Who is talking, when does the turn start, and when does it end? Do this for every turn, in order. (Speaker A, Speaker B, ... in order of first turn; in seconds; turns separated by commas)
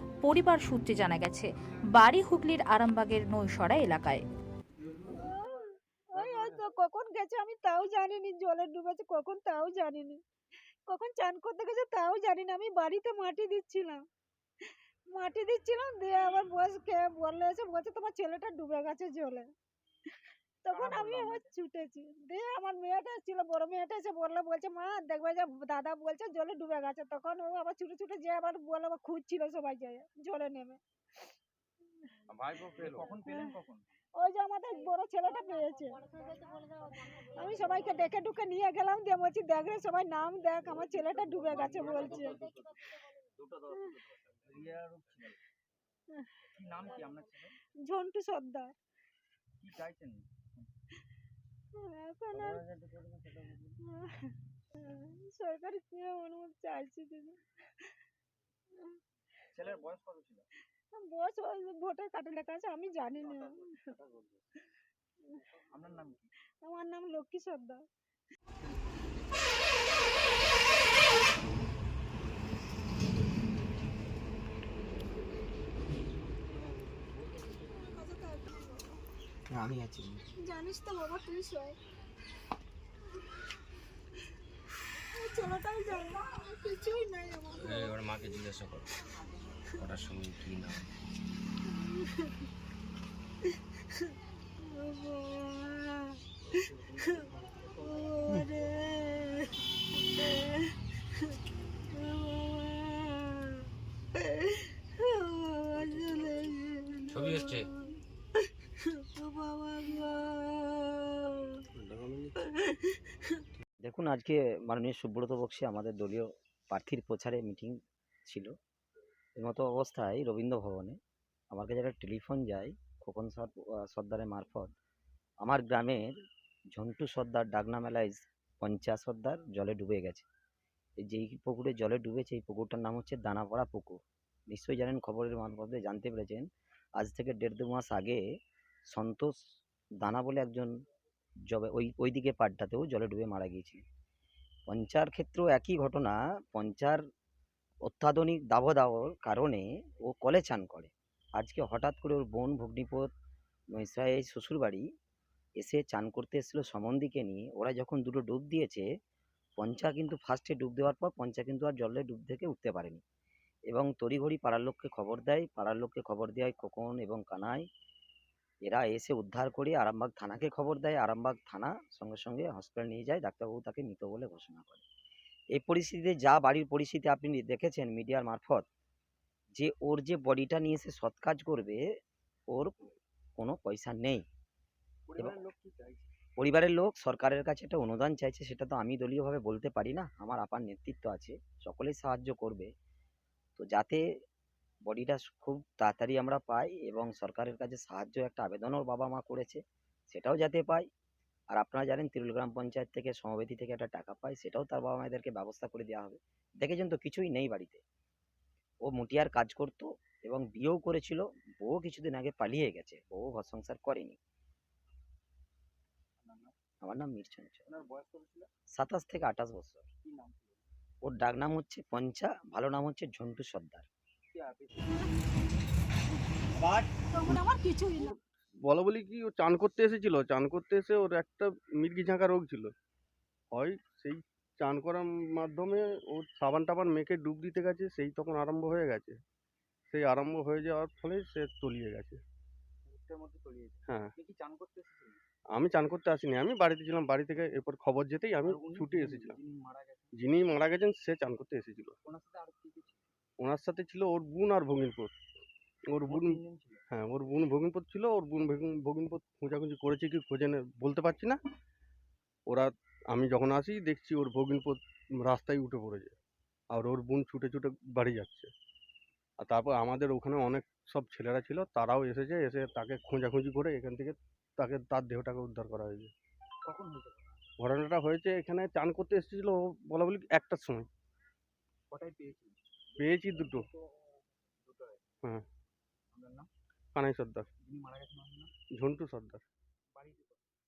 Speaker A: 0.2-4.2, Speaker B: 5.1-10.2, Speaker B: 10.9-14.0, Speaker B: 15.1-19.5, Speaker B: 20.6-30.8, Speaker C: 20.7-21.5, Speaker C: 32.4-33.9, Speaker D: 32.5-32.9, Speaker B: 33.2-33.5, Speaker B: 34.2-36.1, Speaker B: 37.3-42.5, Speaker C: 41.4-42.8, Speaker C: 43.4-45.4, Speaker C: 46.5-47.5, Speaker B: 47.8-48.7, Speaker C: 49.6-50.3, Speaker B: 51.7-52.6, Speaker C: 52.3-53.8, Speaker B: 53.9-57.9, Speaker C: 59.5-60.5, Speaker B: 60.9-63.8, Speaker C: 63.4-64.2, Speaker C: 65.7-66.3, Speaker B: 66.6-67.8, Speaker B: 77.7-79.0, Speaker B: 80.4-81.8, Speaker B: 85.2-88.0, Speaker E: 87.5-88.9, Speaker E: 89.8-90.9, Speaker B: 91.7-92.3, Speaker B: 94.6-96.1, Speaker B: 97.8-99.5, Speaker B: 100.2-100.7, Speaker B: 101.9-103.5, Speaker B: 104.2-107.7, Speaker E: 107.1-107.7, Speaker B: 108.8-111.6, Speaker E: 111.8-112.3, Speaker F: 113.8-118.5, Speaker F: 119.3-121.0, Speaker F: 121.5-124.7, Speaker F: 125.4-126.1, Speaker F: 126.7-130.2, Speaker F: 131.0-136.5, Speaker F: 137.0-138.2, Speaker F: 138.9-139.3, Speaker F: 140.0-140.7, Speaker F: 141.5-143.8, Speaker F: 144.7-147.0, Speaker F: 147.8-153.1, Speaker F: 153.8-154.8, Speaker F: 155.6-158.9, Speaker F: 159.6-163.0, Speaker F: 163.7-167.7, Speaker F: 168.6-174.8, Speaker F: 175.5-178.7, Speaker F: 179.6-181.8, Speaker F: 182.5-184.2, Speaker C: 185.1-186.1, Speaker F: 186.4-192.7, Speaker F: 193.6-194.1, Speaker F: 194.8-200.9, Speaker F: 201.5-207.8, Speaker F: 208.8-214.2, Speaker C: 216.2-216.5, Speaker F: 216.8-217.7, Speaker C: 217.7-218.5, Speaker F: 218.8-219.9, Speaker C: 220.0-220.6, Speaker F: 221.0-223.8, Speaker C: 224.3-225.1, Speaker C: 226.6-226.9, Speaker B: 227.1-228.1, Speaker D: 228.0-232.7, Speaker D: 233.5-239.2, Speaker D: 239.9-242.2, Speaker C: 242.8-245.2, Speaker D: 245.5-249.4, Speaker C: 248.4-250.1, Speaker D: 250.2-252.0, Speaker C: 252.0-253.0, Speaker D: 253.4-255.1, Speaker D: 255.9-261.4, Speaker C: 256.1-256.8, Speaker D: 262.5-266.1, Speaker D: 266.7-268.5, Speaker D: 269.4-276.1, Speaker C: 276.6-277.4, Speaker D: 277.6-280.9, Speaker C: 281.9-283.8, Speaker D: 283.0-283.7, Speaker C: 284.6-285.0, Speaker C: 286.1-286.5, Speaker D: 286.9-287.5, Speaker C: 287.6-288.5, Speaker D: 288.8-289.4, Speaker C: 289.9-290.4